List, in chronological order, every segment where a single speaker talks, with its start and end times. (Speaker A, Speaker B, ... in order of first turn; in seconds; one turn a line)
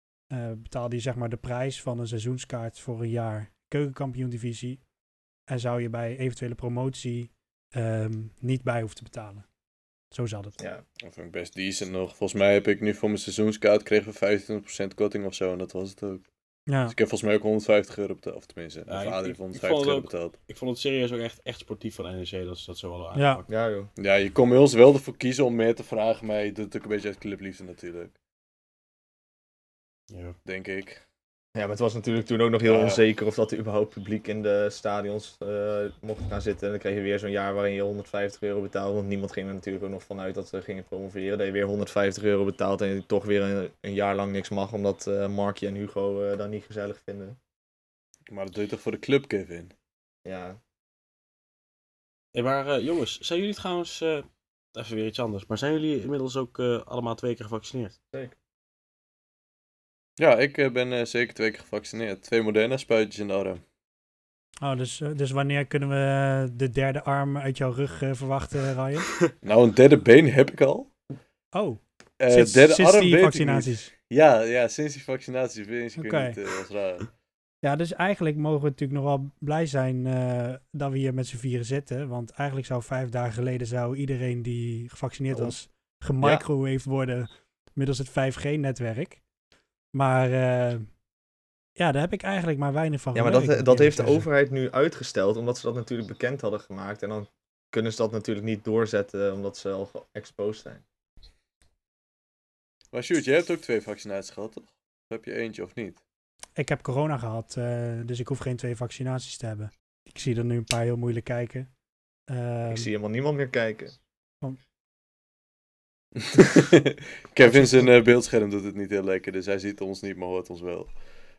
Speaker A: 0.3-4.8
Speaker A: 5.5-9.4
Speaker A: 10.1-10.6
Speaker B: 11.0-16.3
Speaker A: 16.7-16.9
Speaker B: 16.9-20.4
Speaker C: 18.9-23.4
Speaker A: 23.1-23.4
Speaker D: 23.5-23.9
Speaker B: 24.0-28.1
Speaker C: 30.1-30.4
Speaker B: 30.4-31.0
Speaker D: 31.6-47.4
Speaker B: 32.7-33.0
Speaker B: 48.3-49.7
Speaker D: 50.2-50.6
Speaker C: 52.3-57.9
Speaker B: 60.2-63.6
Speaker A: 64.6-69.2
Speaker B: 69.4-70.9
Speaker A: 71.5-73.9
Speaker B: 72.2-77.1
Speaker A: 76.0-76.4
Speaker A: 77.6-89.2
Speaker D: 85.3-85.6
Speaker D: 86.2-86.5
Speaker A: 89.9-90.9
Speaker A: 91.8-94.3
Speaker D: 93.1-100.8
Speaker B: 102.9-106.0
Speaker A: 106.6-111.7
Speaker A: 112.3-112.9
Speaker D: 112.7-114.0
Speaker B: 116.2-120.9
Speaker A: 117.5-117.9